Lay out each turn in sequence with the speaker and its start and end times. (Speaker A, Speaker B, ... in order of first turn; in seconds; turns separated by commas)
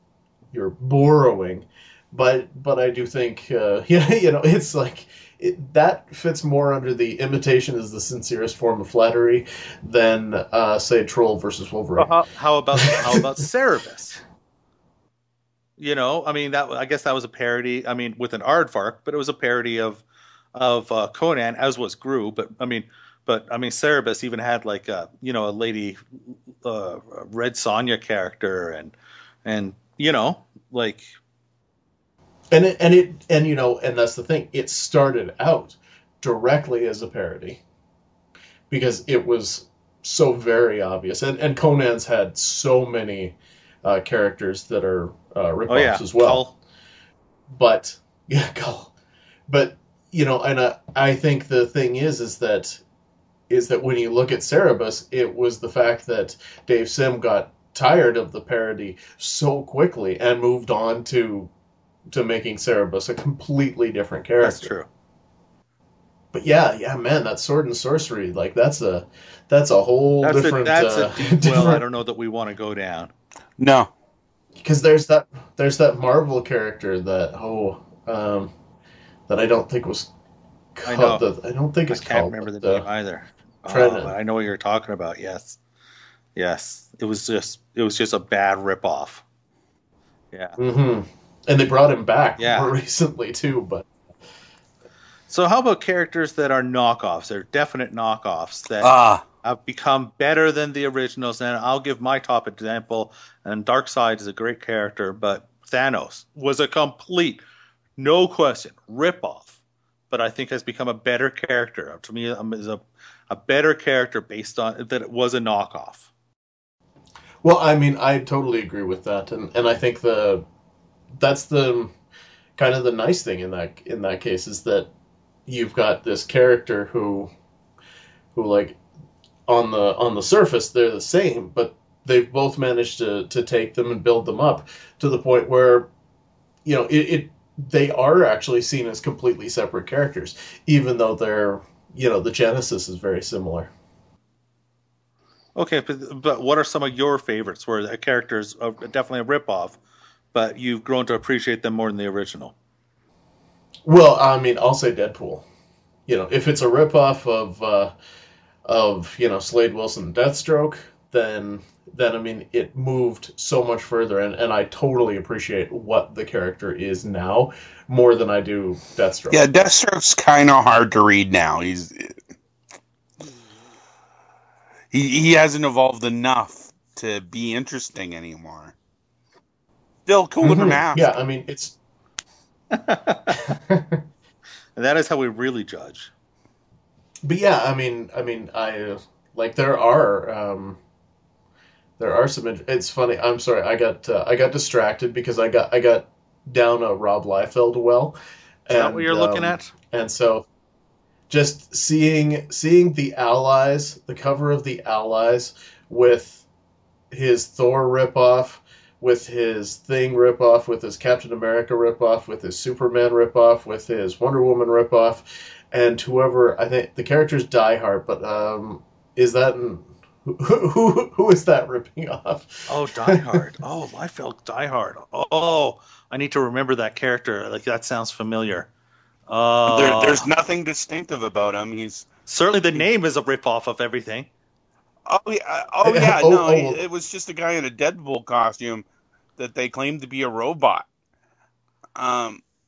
Speaker A: 0.5-12.1, Speaker B: 12.0-14.2, Speaker A: 12.9-13.2, Speaker B: 15.8-28.9, Speaker B: 29.4-31.1, Speaker A: 32.5-37.6, Speaker A: 38.7-46.4, Speaker B: 45.7-46.5, Speaker A: 47.5-48.9, Speaker A: 49.5-52.8, Speaker A: 53.5-61.5, Speaker A: 62.1-64.7, Speaker B: 64.4-64.9, Speaker A: 66.3-71.8, Speaker B: 70.2-73.1, Speaker C: 73.6-73.9, Speaker A: 74.6-78.5, Speaker A: 79.3-80.1, Speaker A: 80.8-82.9, Speaker B: 80.9-81.2, Speaker B: 81.9-85.6, Speaker A: 83.7-84.1, Speaker B: 86.3-89.2, Speaker B: 90.3-90.6, Speaker A: 90.6-93.9, Speaker B: 92.4-92.7, Speaker B: 95.3-107.4, Speaker C: 98.8-99.2, Speaker B: 108.0-109.6, Speaker B: 110.1-116.1, Speaker A: 117.4-120.5, Speaker A: 121.2-121.9, Speaker A: 122.6-124.9, Speaker A: 125.5-127.3, Speaker A: 128.3-128.8, Speaker A: 129.5-135.9, Speaker A: 136.7-143.7, Speaker B: 145.6-149.8, Speaker B: 150.3-152.6, Speaker A: 153.9-155.4, Speaker A: 156.1-157.9, Speaker A: 158.7-169.7, Speaker C: 169.3-172.2, Speaker C: 174.9-178.8, Speaker C: 180.1-181.1, Speaker A: 180.4-181.8, Speaker B: 182.7-183.4, Speaker A: 183.4-184.0, Speaker B: 184.8-186.1, Speaker A: 187.2-190.8, Speaker A: 192.0-200.5, Speaker B: 198.7-199.7, Speaker A: 201.3-206.4, Speaker A: 207.1-223.4, Speaker B: 222.7-228.7, Speaker B: 229.3-230.3, Speaker C: 229.7-232.1, Speaker B: 232.3-234.3, Speaker C: 235.1-238.8, Speaker A: 235.8-236.8, Speaker C: 239.4-240.9, Speaker C: 242.0-242.4